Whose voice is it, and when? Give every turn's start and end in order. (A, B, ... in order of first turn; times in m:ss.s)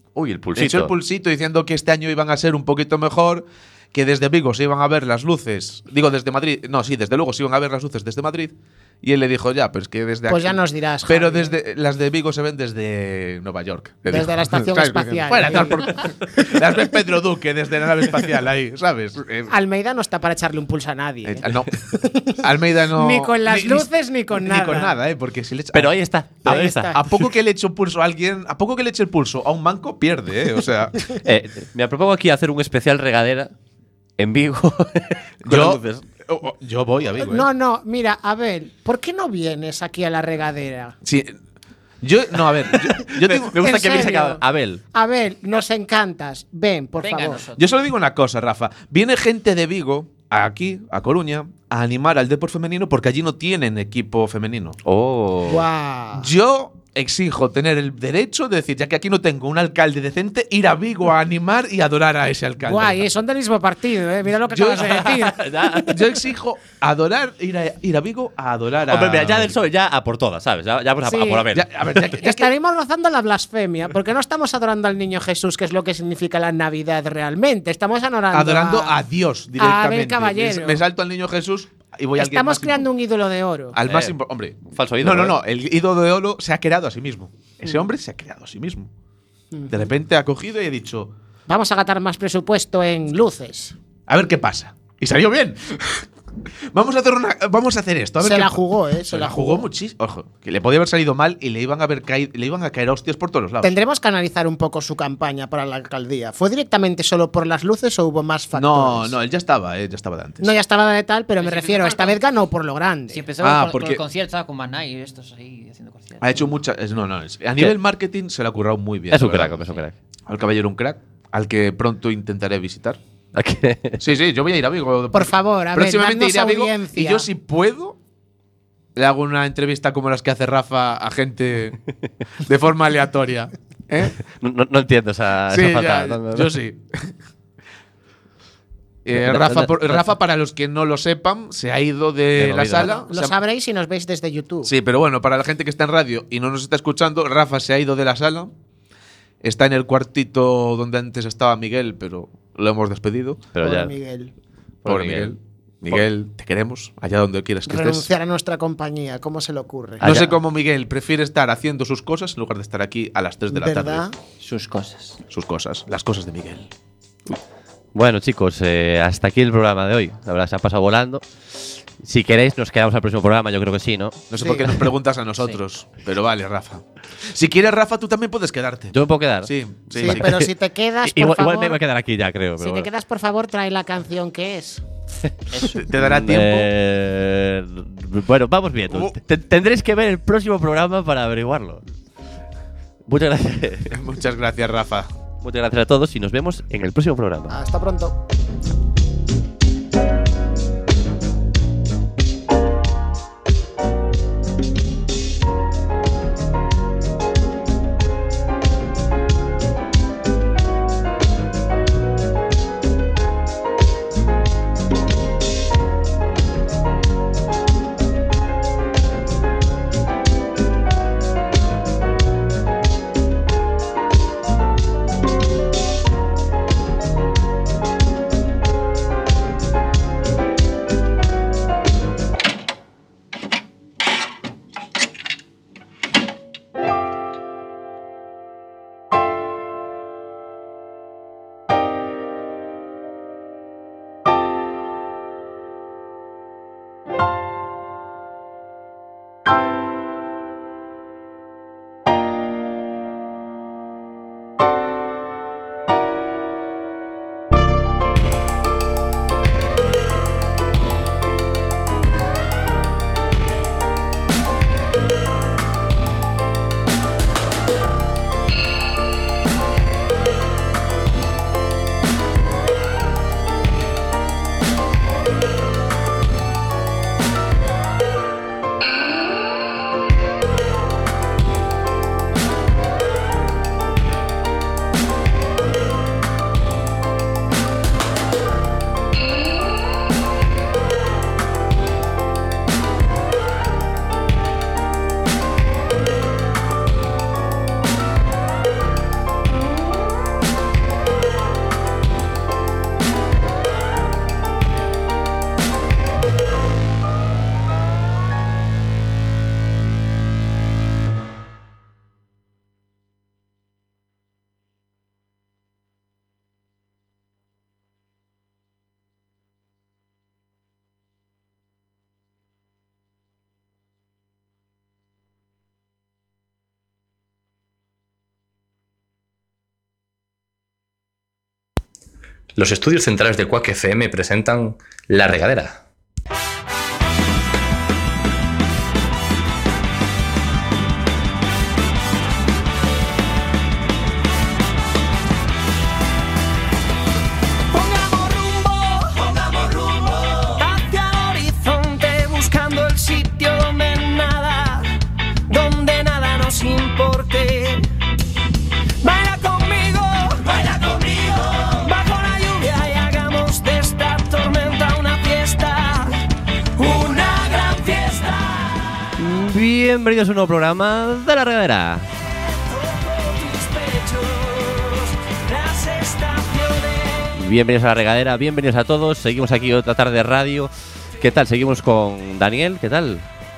0:00.1-0:00.9 A
0:00.6-0:19.5 B
0:10.2-0:11.5 C
0:14.1-0:16.1 C
0:19.5-0:22.4 C
0:21.2-0:21.8 B
0:22.4-0:25.9 B
0:22.9-0:25.0 C
0:25.7-0:27.1 A
0:26.4-0:27.0 C
0:26.4-0:31.1 B
0:31.2-0:33.5 A
0:34.2-0:36.0 A
0:35.4-0:37.4 B
0:37.2-0:41.0 C
0:41.0-0:41.4 B
0:42.0-0:43.8 B
0:42.7-0:44.8 A
0:43.5-0:44.4 C
0:44.9-0:47.4 C
0:47.0-0:47.7 D
0:47.6-0:54.8 B
0:54.8-0:55.6 A
0:55.4-0:56.3 C
0:56.2-1:03.0 B
1:02.6-1:05.8 C
1:04.5-1:09.6 B
1:05.0-1:06.1 A
1:08.9-1:12.0 A
1:11.0-1:11.5 C
1:11.5-1:12.5 B
1:12.1-1:19.0 C
1:18.3-1:22.9 B
1:19.6-1:20.8 C
1:22.2-1:23.8 C
1:23.7-1:28.9 B
1:23.8-1:24.1 A
1:24.7-1:25.4 A
1:29.5-1:29.9 C
1:29.7-1:31.1 B
1:31.5-1:33.8 C
1:34.1-1:36.0 B
1:36.7-1:43.7 B
1:38.2-1:39.7 C
1:43.6-1:49.2 C
1:48.5-1:50.5 B
1:50.4-1:53.2 C
1:51.4-1:52.2 D
1:53.1-1:56.4 D
1:53.4-1:54.0 B
1:56.2-1:59.6 B
1:59.1-1:59.9 A
2:00.3-2:03.0 B
2:03.3-2:04.0 A
2:04.0-2:08.0 B
2:05.1-2:07.3 C
2:08.9-2:11.8 B
2:12.4-2:14.2 B
2:14.4-2:16.5 A
2:15.5-2:17.1 B
2:19.0-2:23.3 B
2:19.1-2:20.1 A
2:22.4-2:23.0 A
2:22.8-2:24.7 C
2:24.6-2:28.5 B
2:29.4-2:33.5 B
2:33.5-2:33.9 A
2:33.6-2:34.3 C
2:34.8-2:35.3 A
2:34.8-2:38.1 B
2:37.6-2:40.0 C
2:40.0-2:40.4 A
2:40.0-2:44.0 B
2:43.5-2:44.2 C
2:44.4-2:45.2 D
2:45.3-2:46.7 B
2:47.9-2:54.2 A
2:54.3-3:00.2 B
2:54.4-2:54.7 C
2:58.9-3:00.5 A
3:00.0-3:01.8 C
3:01.0-3:02.9 A
3:02.6-3:04.8 C
3:05.5-3:06.7 B
3:05.5-3:11.8 A
3:13.0-3:14.0 A
3:13.9-3:15.1 B
3:15.4-3:17.6 A
3:17.5-3:18.2 C
5:32.6-5:35.8 E
5:47.7-5:54.9 F
5:55.5-5:57.9 F
5:59.0-6:06.2 F
6:06.8-6:09.1 F
6:09.2-6:12.1 A
6:12.6-6:17.4 F
6:17.4-6:23.2 A